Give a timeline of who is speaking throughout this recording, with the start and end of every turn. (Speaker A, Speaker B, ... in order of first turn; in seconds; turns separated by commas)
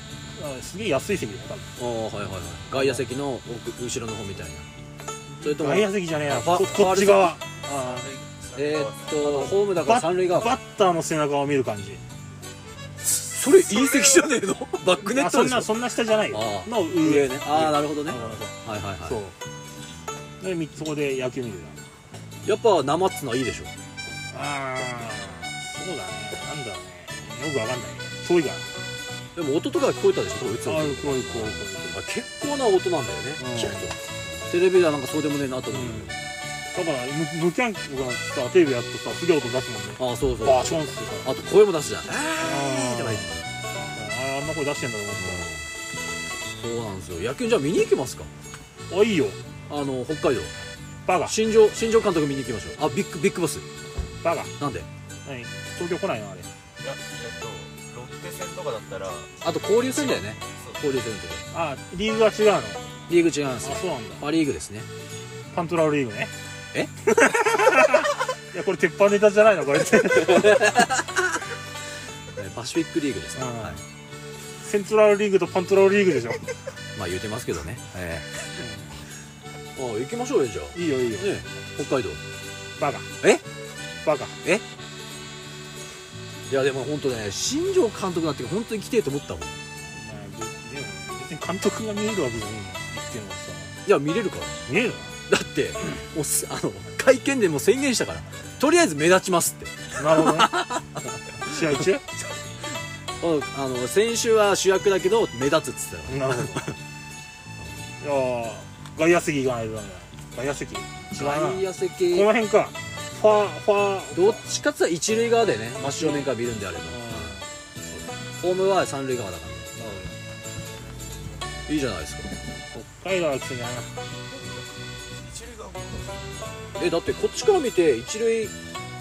Speaker A: 0.3-1.7, Speaker B: 1.8-4.7, Speaker A: 2.7-3.0, Speaker A: 5.4-8.1, Speaker B: 5.4-7.4, Speaker C: 7.7-9.6, Speaker B: 8.5-10.6, Speaker A: 9.2-12.0, Speaker B: 13.1-15.7, Speaker C: 13.6-14.3, Speaker A: 15.1-19.4, Speaker B: 16.3-19.2, Speaker A: 20.4-21.9, Speaker B: 22.4-23.7, Speaker A: 24.3-28.7, Speaker B: 29.3-36.2, Speaker A: 30.6-32.0, Speaker A: 33.4-33.9, Speaker A: 35.7-36.1, Speaker A: 36.7-41.3, Speaker B: 40.0-43.4, Speaker A: 42.4-43.4, Speaker A: 43.9-45.5, Speaker B: 45.2-45.7, Speaker B: 46.5-48.3, Speaker A: 48.9-49.4, Speaker B: 49.7-50.5, Speaker A: 51.0-51.4, Speaker B: 51.2-53.6, Speaker A: 54.2-54.5, Speaker B: 54.6-54.9, Speaker A: 55.2-56.5, Speaker C: 56.8-60.8, Speaker B: 59.4-61.5, Speaker A: 61.5-62.9, Speaker B: 63.1-64.9, Speaker A: 63.6-64.2, Speaker A: 65.5-66.3, Speaker A: 67.0-70.9, Speaker B: 70.0-71.4, Speaker B: 72.3-73.8, Speaker A: 73.3-73.8, Speaker A: 74.6-76.5, Speaker B: 76.9-78.3, Speaker A: 78.6-78.9, Speaker B: 79.8-82.2, Speaker A: 80.7-81.3, Speaker A: 82.8-83.1, Speaker A: 84.0-84.4, Speaker B: 86.5-89.5, Speaker A: 89.9-93.8, Speaker B: 93.8-94.6, Speaker A: 94.7-95.2, Speaker B: 95.3-101.9, Speaker A: 99.9-100.7, Speaker A: 101.2-102.1, Speaker B: 103.2-106.6, Speaker A: 106.1-106.8, Speaker A: 108.0-114.5, Speaker B: 111.1-112.3, Speaker B: 114.1-120.0, Speaker A: 115.8-116.3, Speaker A: 116.9-117.5, Speaker A: 119.8-120.1, Speaker B: 121.7-122.3, Speaker A: 122.7-123.9, Speaker C: 124.3-126.4, Speaker B: 126.8-128.5